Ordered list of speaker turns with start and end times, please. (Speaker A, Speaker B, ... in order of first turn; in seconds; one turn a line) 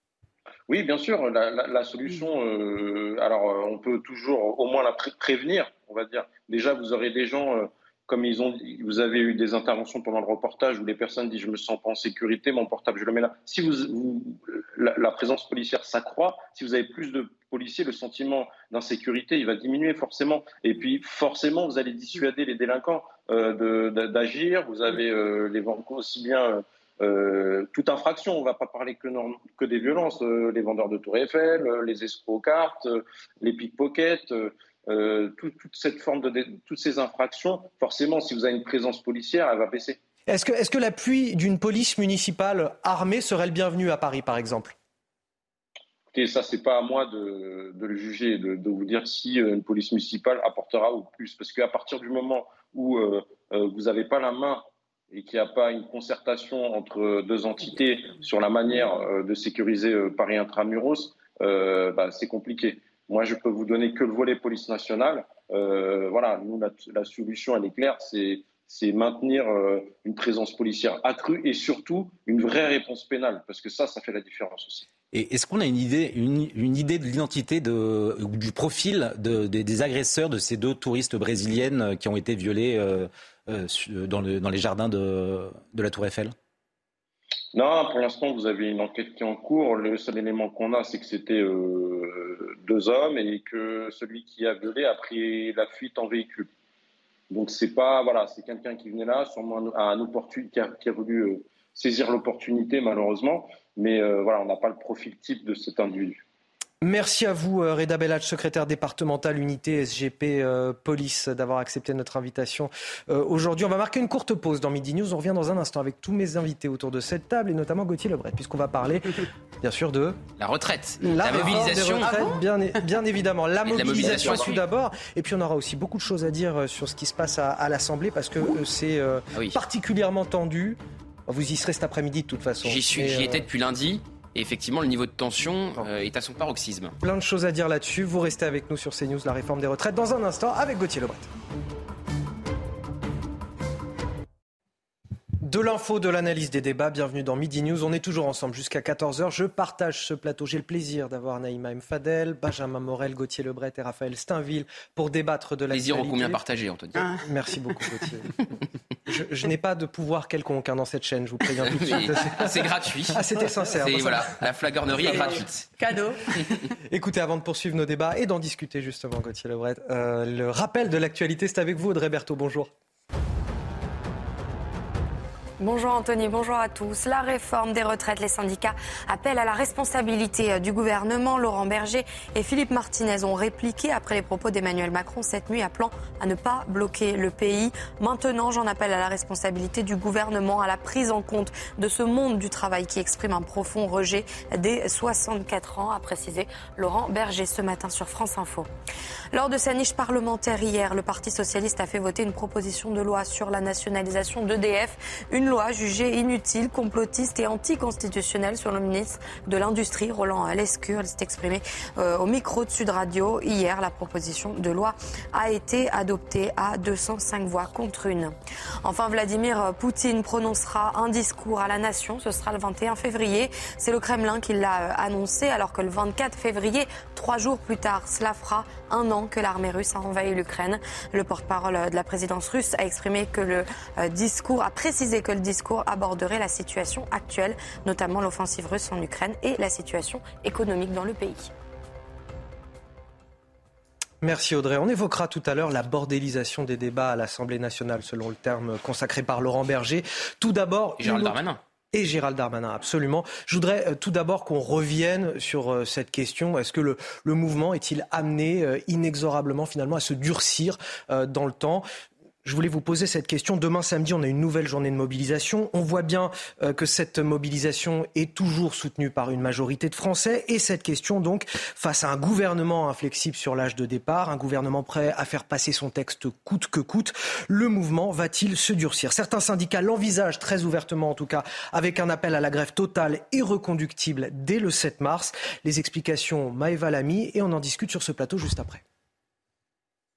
Speaker A: 0.7-40.0
Speaker B: 40.3-44.7
Speaker A: 46.1-74.8
Speaker C: 75.1-86.3
Speaker A: 87.5-96.5
Speaker A: 97.3-106.2
Speaker B: 106.8-120.2
Speaker D: 120.4-122.1
Speaker B: 121.0-133.4
Speaker E: 121.1-122.4
Speaker D: 123.7-124.6
Speaker D: 132.6-136.9
Speaker B: 137.0-141.3
Speaker B: 145.4-156.4
Speaker D: 155.7-157.1
Speaker E: 156.9-157.2
Speaker B: 157.2-158.3
Speaker B: 159.1-164.3
Speaker D: 161.6-165.6
Speaker E: 165.0-166.2
Speaker B: 165.0-165.4
Speaker B: 166.9-172.7
Speaker F: 175.6-198.7
Speaker F: 199.3-241.5
Speaker B: 244.2-251.4
Speaker D: 251.0-251.6
Speaker B: 251.9-261.8
Speaker B: 262.4-288.8